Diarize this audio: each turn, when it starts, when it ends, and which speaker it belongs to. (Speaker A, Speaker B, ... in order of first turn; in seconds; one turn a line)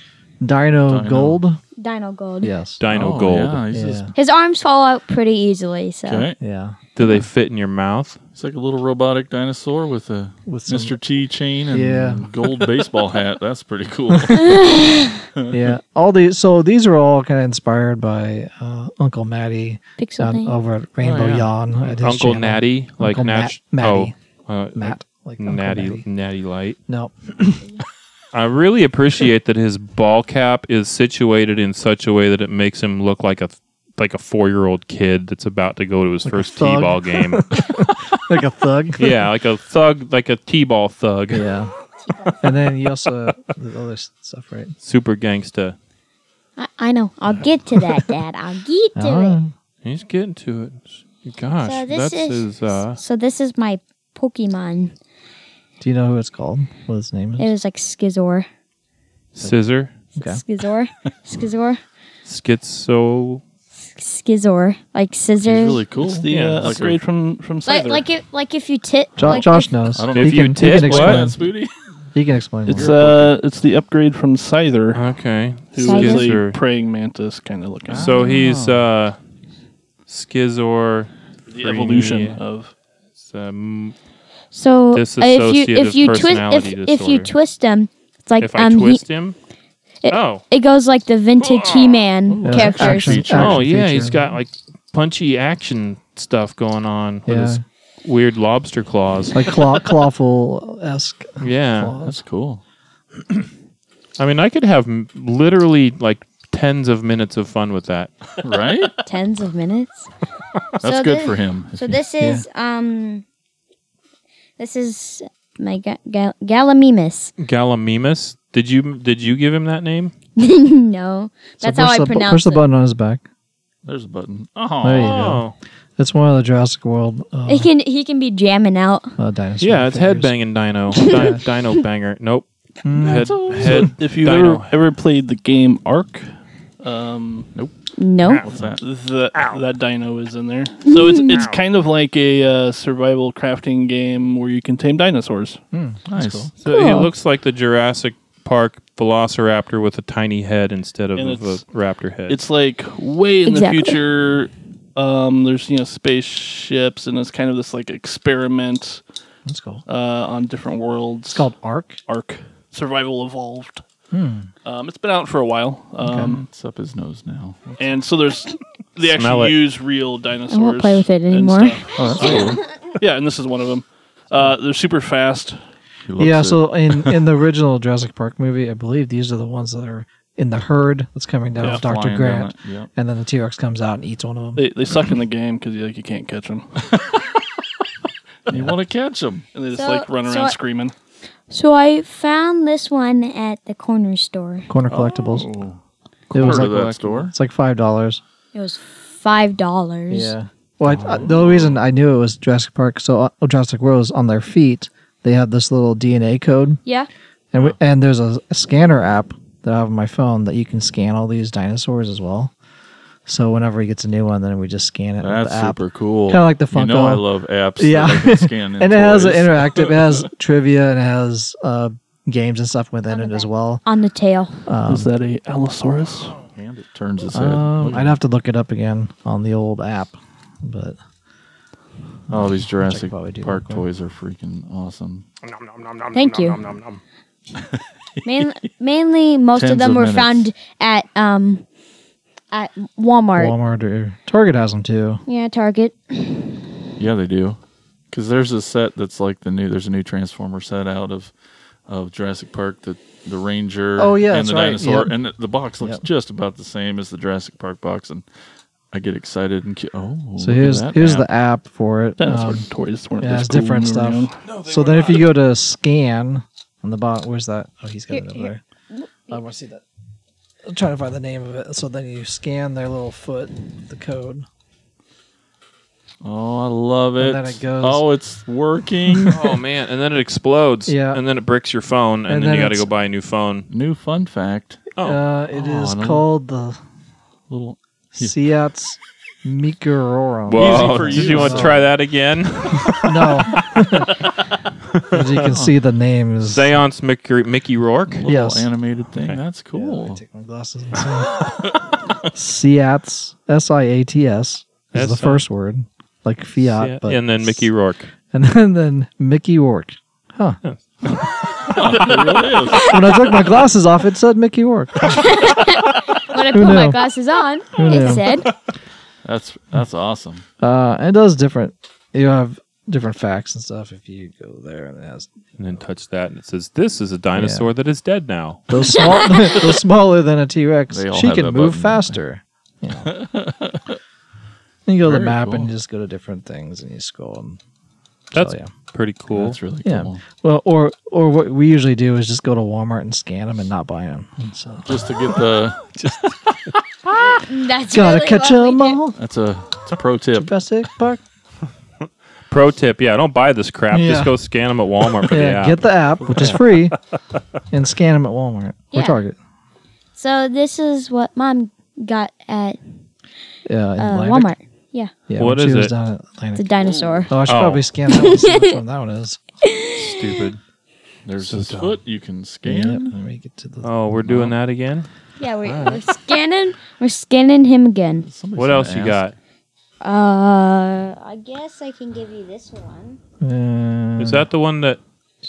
Speaker A: 0.4-1.6
Speaker B: 0.9-1.4
Speaker C: 1.8-2.5
Speaker A: 2.4-2.8
Speaker D: 2.8-3.6
Speaker B: 2.9-4.1
Speaker A: 3.7-4.1
Speaker C: 4.1-6.3
Speaker B: 6.0-6.4
Speaker A: 6.4-6.8
Speaker D: 7.0-8.2
Speaker B: 8.3-14.7
Speaker A: 10.5-10.9
Speaker A: 11.7-12.3
Speaker C: 14.3-15.2
Speaker A: 15.5-24.1
Speaker C: 20.0-20.6
Speaker B: 21.0-21.9
Speaker D: 22.0-26.8
Speaker A: 24.7-26.1
Speaker A: 26.9-27.6
Speaker D: 28.3-37.5
Speaker A: 36.2-39.1
Speaker D: 39.0-41.5
Speaker A: 41.3-41.7
Speaker C: 42.0-42.4
Speaker A: 42.4-44.7
Speaker D: 44.8-45.8
Speaker C: 46.6-49.4
Speaker A: 48.9-49.5
Speaker D: 49.8-53.0
Speaker C: 51.6-54.9
Speaker A: 55.8-57.5
Speaker C: 57.4-58.5
Speaker D: 59.3-59.9
Speaker C: 60.1-61.8
Speaker A: 60.1-60.4
Speaker D: 62.2-63.4
Speaker C: 63.9-65.8
Speaker B: 65.4-67.0
Speaker E: 66.0-68.0
Speaker D: 66.3-66.8
Speaker C: 67.7-69.8
Speaker A: 69.2-71.4
Speaker B: 69.9-71.7
Speaker D: 70.1-71.3
Speaker A: 72.1-72.9
Speaker E: 72.7-75.0
Speaker B: 72.7-73.3
Speaker D: 74.9-76.6
Speaker E: 75.7-78.3
Speaker C: 75.8-76.4
Speaker B: 77.9-78.8
Speaker D: 77.9-79.2
Speaker D: 80.1-82.4
Speaker E: 81.5-82.7
Speaker D: 83.2-83.9
Speaker C: 84.5-89.0
Speaker D: 84.9-87.3
Speaker D: 88.4-89.4
Speaker C: 90.0-93.3
Speaker D: 90.1-90.4
Speaker D: 91.4-91.9
Speaker B: 92.3-93.7
Speaker A: 92.4-94.3
Speaker D: 93.3-99.5
Speaker A: 97.2-97.6
Speaker A: 99.3-102.2
Speaker D: 101.4-101.9
Speaker B: 102.0-102.6
Speaker D: 104.2-108.1
Speaker B: 108.4-108.9
Speaker C: 109.0-110.1
Speaker C: 110.8-113.2
Speaker B: 110.8-112.0
Speaker C: 114.6-117.3
Speaker D: 117.4-120.1
Speaker C: 120.4-122.6
Speaker A: 121.6-123.2
Speaker B: 123.8-125.2
Speaker A: 124.8-127.7
Speaker D: 125.0-125.5
Speaker C: 127.5-129.1
Speaker A: 129.2-130.3
Speaker D: 129.6-134.7
Speaker C: 130.9-131.3
Speaker A: 131.1-131.4
Speaker A: 132.8-133.9
Speaker B: 133.0-133.9
Speaker E: 133.6-137.5
Speaker C: 138.0-138.5
Speaker B: 138.4-138.8
Speaker E: 138.6-145.6
Speaker D: 139.3-139.6
Speaker C: 140.8-141.4
Speaker D: 141.3-141.6
Speaker A: 145.7-146.5
Speaker B: 146.1-146.5
Speaker D: 146.6-152.4
Speaker C: 146.6-147.1
Speaker E: 151.2-151.6
Speaker E: 152.3-159.0
Speaker C: 153.4-154.0
Speaker A: 159.5-159.8
Speaker E: 159.9-161.5
Speaker A: 161.3-162.0
Speaker E: 162.1-163.8
Speaker A: 164.1-164.5
Speaker E: 164.6-166.4
Speaker A: 166.0-166.4
Speaker B: 166.4-168.0
Speaker E: 167.8-175.6
Speaker D: 169.0-169.6
Speaker C: 170.5-172.9
Speaker B: 171.9-172.6
Speaker B: 176.1-177.2
Speaker A: 176.2-184.6
Speaker B: 181.6-182.9
Speaker E: 184.6-186.7
Speaker B: 188.5-189.4
Speaker E: 189.5-190.9
Speaker C: 189.7-190.6
Speaker C: 191.5-194.7
Speaker A: 194.7-195.5
Speaker B: 194.9-195.8
Speaker D: 196.3-197.2
Speaker A: 196.3-198.2
Speaker B: 196.3-197.3
Speaker C: 198.5-200.3
Speaker A: 200.1-206.8
Speaker B: 200.8-201.8
Speaker A: 207.5-212.5
Speaker A: 213.2-217.2
Speaker B: 215.2-220.2
Speaker A: 217.8-223.8
Speaker C: 223.1-224.6
Speaker A: 224.7-225.1
Speaker E: 224.8-226.4
Speaker B: 226.5-228.2
Speaker A: 227.3-231.0
Speaker A: 232.3-233.8
Speaker B: 232.3-235.2
Speaker D: 235.4-237.0
Speaker C: 236.1-236.6
Speaker B: 237.6-238.5
Speaker C: 238.2-241.6
Speaker B: 239.6-240.5
Speaker C: 242.5-243.5
Speaker A: 243.3-245.2
Speaker C: 245.3-246.6
Speaker B: 247.0-247.6
Speaker B: 248.1-251.3
Speaker B: 251.9-258.2
Speaker A: 254.0-255.2
Speaker B: 258.9-261.3
Speaker A: 260.4-262.6
Speaker E: 262.2-264.4
Speaker A: 263.2-268.6
Speaker C: 268.1-269.4
Speaker A: 269.3-269.8
Speaker A: 270.6-274.4
Speaker B: 276.2-279.4
Speaker A: 277.2-278.0
Speaker D: 279.3-283.7
Speaker A: 280.9-281.2
Speaker A: 282.3-282.9
Speaker B: 283.7-284.9
Speaker A: 285.0-286.8
Speaker B: 285.5-286.2
Speaker B: 287.5-288.3
Speaker A: 288.1-291.8
Speaker D: 290.5-294.1
Speaker B: 290.5-291.9
Speaker A: 293.0-294.1
Speaker A: 295.1-296.7
Speaker B: 295.4-295.7
Speaker D: 296.4-298.2
Speaker B: 298.1-300.2
Speaker A: 298.2-298.7
Speaker A: 299.7-301.5
Speaker A: 302.3-307.7
Speaker D: 304.9-305.4
Speaker D: 306.7-308.1
Speaker A: 308.3-310.6
Speaker D: 310.6-311.8
Speaker B: 311.6-313.0
Speaker A: 312.9-315.3
Speaker C: 315.0-318.5
Speaker A: 316.3-317.0
Speaker A: 317.7-318.4
Speaker B: 319.2-320.4
Speaker A: 320.6-325.3
Speaker D: 325.6-328.6
Speaker A: 327.3-327.7
Speaker A: 328.7-333.1
Speaker C: 328.8-329.7
Speaker B: 330.9-332.2
Speaker B: 333.0-334.0
Speaker A: 334.9-337.6
Speaker B: 335.0-335.7
Speaker D: 338.3-339.6
Speaker A: 338.3-338.7
Speaker B: 339.3-340.2
Speaker A: 339.8-345.2
Speaker B: 344.9-347.2
Speaker C: 347.2-349.0
Speaker A: 347.9-349.1
Speaker B: 349.1-350.5
Speaker A: 350.3-351.2
Speaker D: 352.5-355.8
Speaker A: 353.9-354.4
Speaker A: 355.2-357.0
Speaker A: 357.7-359.4
Speaker C: 358.9-359.2
Speaker C: 360.1-362.8
Speaker A: 363.7-364.5
Speaker C: 364.0-365.1
Speaker A: 365.3-366.6
Speaker D: 365.4-365.9
Speaker C: 366.5-367.4
Speaker B: 366.8-367.3
Speaker A: 367.3-369.4
Speaker D: 367.4-367.8
Speaker C: 368.1-368.8
Speaker C: 369.6-370.5
Speaker D: 369.9-370.6
Speaker B: 371.2-373.1
Speaker D: 371.4-371.9
Speaker A: 372.6-373.9
Speaker D: 373.8-375.1
Speaker B: 374.3-374.5
Speaker C: 375.4-378.3
Speaker D: 375.6-376.0
Speaker B: 378.2-379.2
Speaker D: 378.6-379.4
Speaker C: 380.0-383.2
Speaker A: 383.4-384.5
Speaker D: 384.2-385.0